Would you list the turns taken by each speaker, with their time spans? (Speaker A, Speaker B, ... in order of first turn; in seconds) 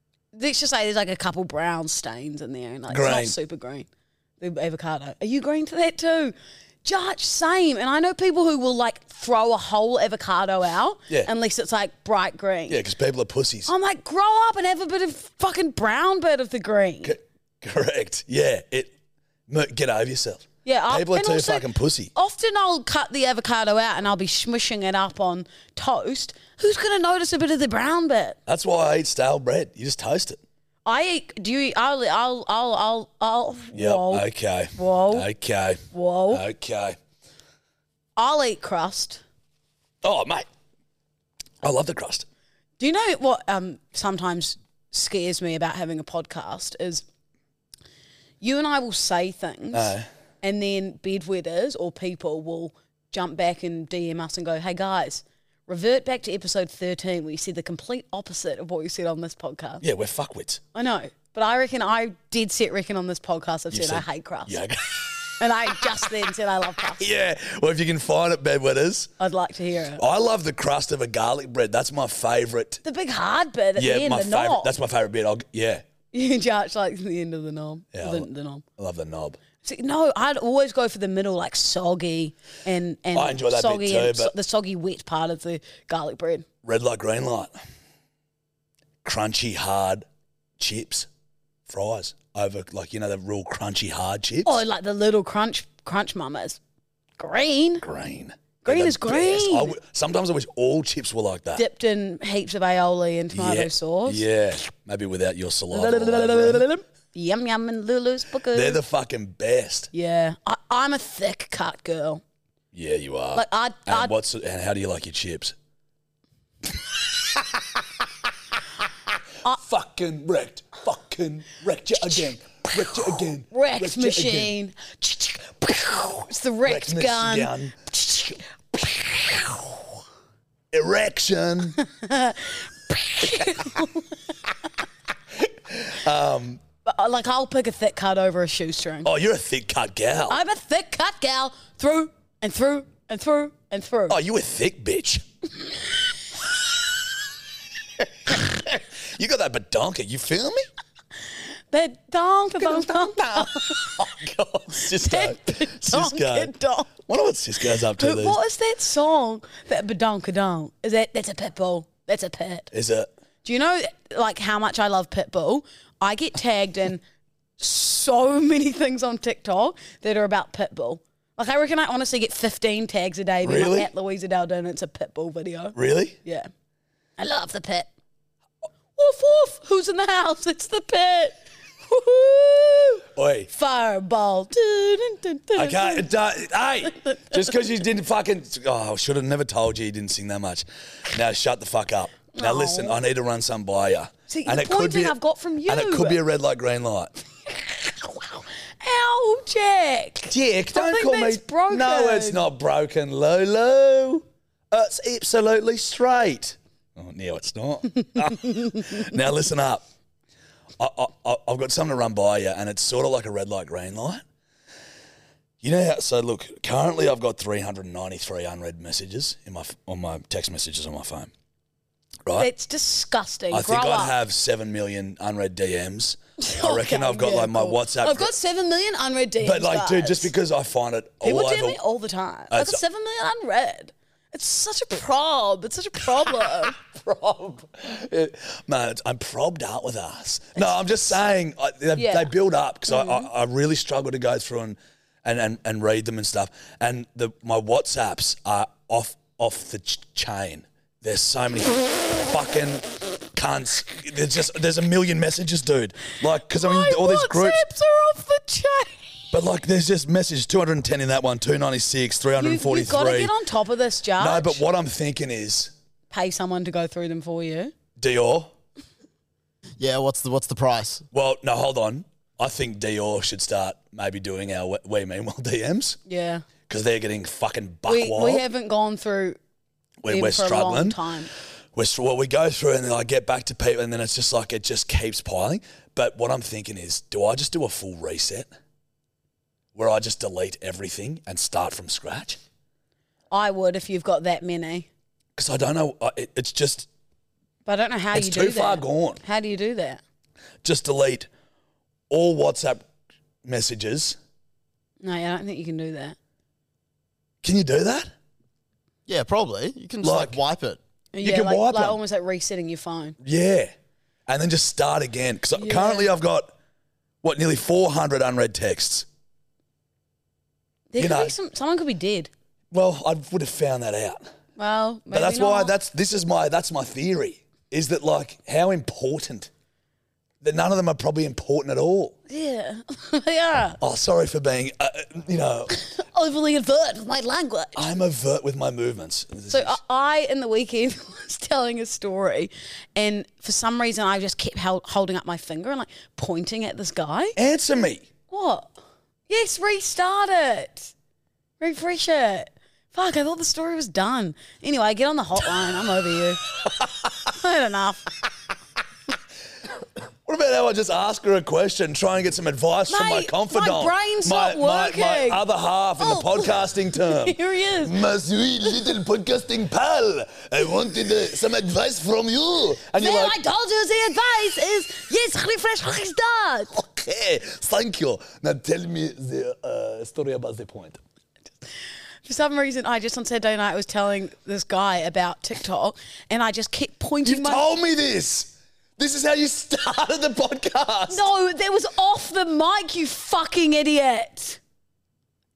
Speaker A: 0.3-3.9, 4.4-12.8, 13.7-17.2, 20.6-28.4, 30.9-35.3, 35.9-36.4, 38.2-39.2, 42.8-47.0, 48.4-59.8, 60.7-64.6, 65.4-67.0, 69.2-70.0, 72.8-74.7, 76.1-78.6, 79.6-86.5, 94.5-96.6, 97.2-97.8, 98.6-99.8, 101.6-104.2, 105.7-108.8, 109.9-112.2, 113.3-114.2, 123.5-129.7, 131.8-134.2, 136.8-139.1, 140.3-144.2, 151.7-153.9, 155.0-156.9, 158.0-162.7, 163.4-167.0, 167.6-176.5, 177.2-177.9, 179.0-186.1, 187.0-187.4, 192.3-193.0, 194.3-196.2, 197.5-202.4, 222.4-224.2, 226.4-230.3, 231.2-236.8, 240.6-241.0, 241.9-242.3, 242.9-243.3, 256.5-259.1, 262.4-264.6, 266.1-267.7, 276.1-276.4, 277.9-279.4, 280.1-281.3, 293.3-294.9, 297.7-300.0, 305.0-306.2, 311.1-313.2, 315.6-316.1, 320.9-322.3, 324.6-325.7, 332.3-333.8, 335.7-337.9, 339.5-347.4, 348.3-348.8, 349.3-350.9, 351.6-356.4, 357.3-358.1, 362.9-365.4, 366.0-368.0, 373.0-376.7, 382.2-387.7, 391.1-394.6
Speaker B: 2.9-3.4, 12.7-13.7, 17.0-18.9, 19.5-22.1, 28.5-30.4, 33.7-37.0, 40.0-40.5, 41.6-42.3, 49.7-50.1, 59.8-60.6, 63.7-65.4, 67.0-69.1, 70.0-72.8, 73.8-75.8, 77.9-79.4, 83.1-84.3, 86.6-87.6, 89.0-90.1, 90.6-91.1, 91.7-94.6, 97.8-101.7, 103.3-106.7, 108.5-109.9, 112.7-115.5, 119.5-124.5, 126.7-127.8, 130.7-131.8, 135.4-136.6, 139.0-140.4, 144.1-145.2, 148.3-150.7, 152.6-156.5, 157.1-158.4, 162.7-163.1, 173.4-173.9, 175.8-176.2, 183.2-183.5, 185.6-197.1, 200.3-209.8, 210.8-214.2, 215.6-221.3, 223.5-228.3, 229.4-231.8, 232.5-232.8, 236.7-257.6, 259.3-263.3, 264.2-265.7, 268.0-268.5, 271.1-276.0, 276.7-278.4, 280.0-281.0, 281.7-288.5, 289.7-292.4, 295.4-296.9, 298.1-299.2, 300.6-301.3, 302.1-302.9, 303.4-304.2, 307.4-308.1, 310.0-310.4, 311.2-312.0, 313.2-313.7, 314.3-316.5, 317.2-319.1, 321.0-321.4, 322.7-324.3, 325.1-329.5, 330.4-332.2, 333.8-335.8, 337.8-339.8, 347.4-348.1, 360.3-373.4, 376.7-381.0, 387.2-391.2
Speaker C: 269.8-271.1, 309.1-310.8